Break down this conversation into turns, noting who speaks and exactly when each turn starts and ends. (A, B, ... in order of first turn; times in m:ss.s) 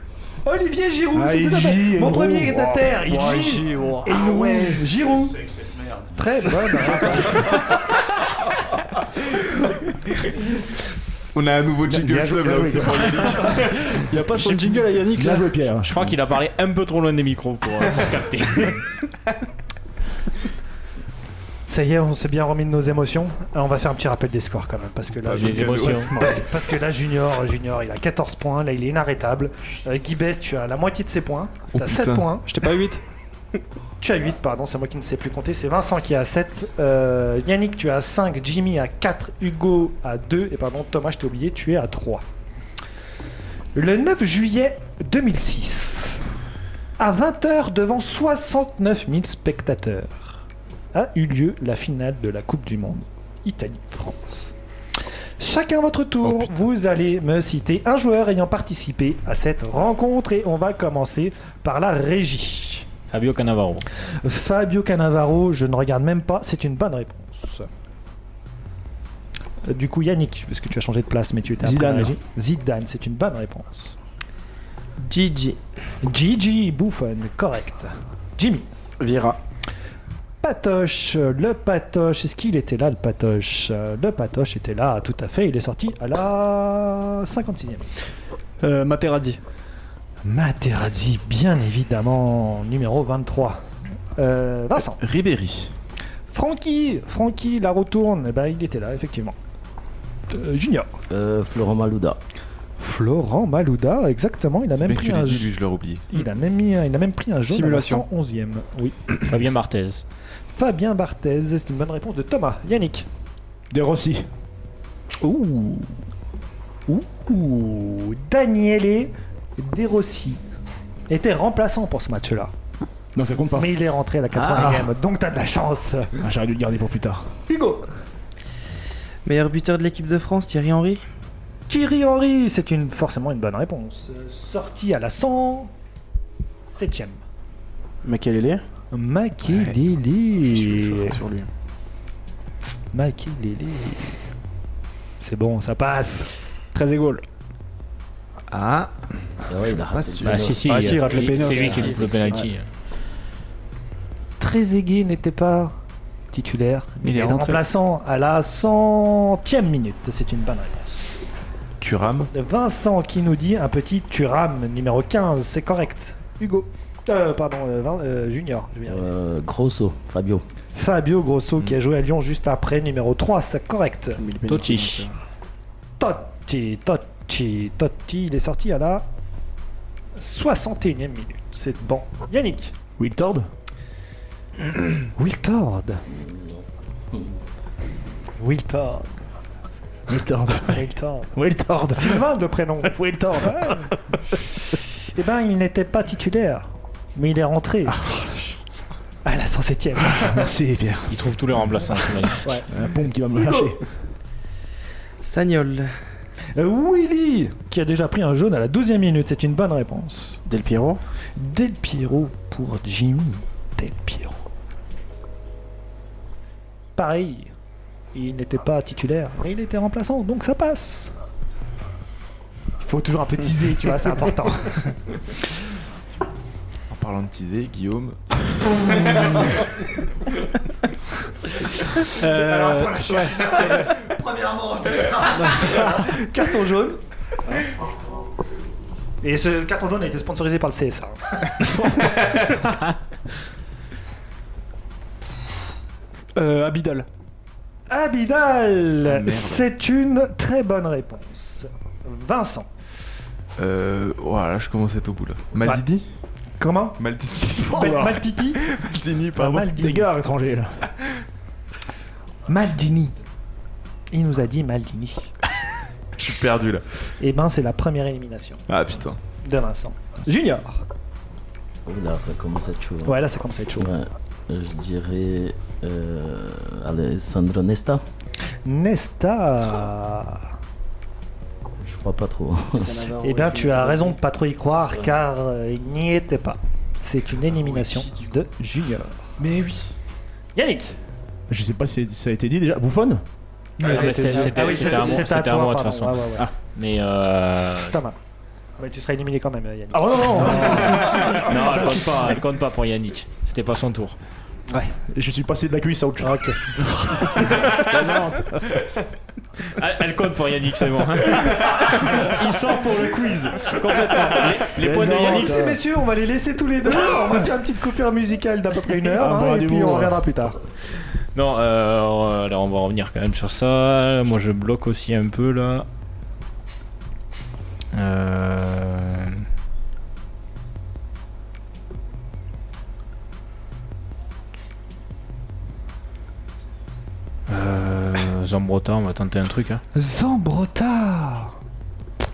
0:00.4-0:05.4 A
0:01.1-0:03.0 B
0:03.1-0:04.1 C
0:04.1-0:06.1 B
0:06.2-0:07.8 A
0:11.3-0:14.0 D
0:11.8-0:13.5 B
0:13.9-0:15.5 C
0:15.1-0:16.1 B
0:15.8-0:18.8 E
0:21.7-0:32.5 A
0:25.3-0:26.1 D
0:25.3-0:26.2 E
0:31.7-0:32.3 D
0:32.5-0:33.0 C
0:34.0-0:42.2 A
0:43.8-0:46.2 A
0:47.0-0:50.4 A
0:50.9-0:54.5 A
0:55.4-1:02.9 A
0:56.2-0:56.5 D
1:03.1-1:03.9 E
1:04.2-1:07.7 A
1:09.6-1:14.0 A
1:11.6-1:12.2 B
1:15.0-1:15.6 F
1:16.0-1:18.7 A
1:19.0-1:19.4 G
1:20.4-1:27.9 A
1:28.6-1:29.4 C
1:30.2-1:33.6 A
1:34.2-1:35.0 A
1:35.0-1:35.7 D
1:36.3-1:39.4 A
1:40.3-1:40.9 A
1:41.1-1:42.2 H
1:42.8-1:45.5 A
1:44.7-1:46.1 D
1:46.1-1:49.1 A
1:47.5-1:48.0 C
1:49.3-1:50.0 E
1:50.5-1:53.1 A
1:53.7-1:54.3 B
1:55.2-1:56.0 A
1:56.9-2:00.4 A
2:01.1-2:02.5 A
2:03.2-2:03.7 B
2:03.6-2:06.1 A
2:04.3-2:04.9 B
2:06.2-2:07.3 B
2:07.5-2:07.9 A
2:09.2-2:11.0 F
2:11.7-2:15.7 A
2:16.7-2:17.2 A
2:18.0-2:18.6 G
2:18.9-2:21.2 A
2:20.5-2:21.5 G
2:22.9-2:24.2 A
2:25.2-2:26.3 A
2:26.7-2:27.2 C
2:28.5-2:28.9 D
2:29.5-2:31.0 H
2:29.9-2:30.5 D
2:30.2-2:32.7 E
2:30.6-2:32.1 C
2:31.5-2:32.5 G
2:34.4-2:35.8 A
2:36.3-2:41.2 A
2:37.0-2:37.6 C
2:41.8-2:42.3 D
2:42.3-2:49.1 A
2:48.9-2:50.4 H
2:50.8-2:54.2 A
2:54.2-2:55.1 G
2:54.5-2:55.1 E
2:56.0-2:59.1 A
3:00.2-3:02.8 A
3:03.0-3:03.5 B
3:05.2-3:06.0 A
3:06.1-3:06.6 H
3:08.4-3:09.1 A
3:10.1-3:12.3 B
3:10.7-3:11.3 A
3:12.0-3:13.9 A
3:12.8-3:13.8 B
3:15.0-3:18.1 A
3:19.2-3:20.5 A
3:20.2-3:21.2 B
3:21.1-3:22.6 E
3:22.7-3:23.8 B
3:25.2-3:25.9 F
3:26.6-3:30.4 A
3:30.5-3:31.0 G
3:31.4-3:34.4 A
3:37.0-3:37.5 A
3:38.1-3:41.1 A
3:42.8-3:45.0 A
3:46.9-3:49.6 D
3:52.0-3:57.0 A
3:52.0-3:53.6 C
3:59.2-4:01.7 A
4:06.4-4:07.1 C
4:07.9-4:12.7 A
4:09.0-4:09.7 D
4:13.6-4:16.0 D
4:16.6-4:17.0 A
4:17.0-4:19.7 D
4:17.6-4:18.6 A
4:17.7-4:18.2 B
4:19.4-4:20.1 A
4:19.5-4:20.7 B
4:22.5-4:23.1 A
4:24.1-4:25.3 A
4:26.2-4:26.8 D
4:27.2-4:28.6 A
4:28.7-4:29.2 D
4:29.4-4:30.8 A
4:31.9-4:33.2 H
4:33.0-4:33.9 A
4:33.8-4:38.0 H
4:38.6-4:40.5 A
4:41.8-4:43.2 H
4:42.9-4:43.9 G
4:43.2-4:49.3 A
4:49.4-4:49.9 D
4:50.6-4:51.0 A
4:51.5-4:53.2 B
4:53.8-4:58.0 E
4:53.8-4:55.2 F
4:53.8-4:56.5 A
4:57.8-4:58.2 A
4:58.8-5:02.4 A
4:59.9-5:01.4 B
5:00.7-5:04.2 E
5:04.9-5:06.8 B
5:06.2-5:07.5 A
5:07.7-5:08.3 E
5:07.7-5:08.5 B
5:09.8-5:15.7 E
5:14.8-5:15.8 B
5:14.8-5:20.6 A
5:19.0-5:20.3 B
5:21.3-5:25.9 E
5:27.9-5:29.5 E
5:37.5-5:39.8 E
5:40.0-5:41.6 A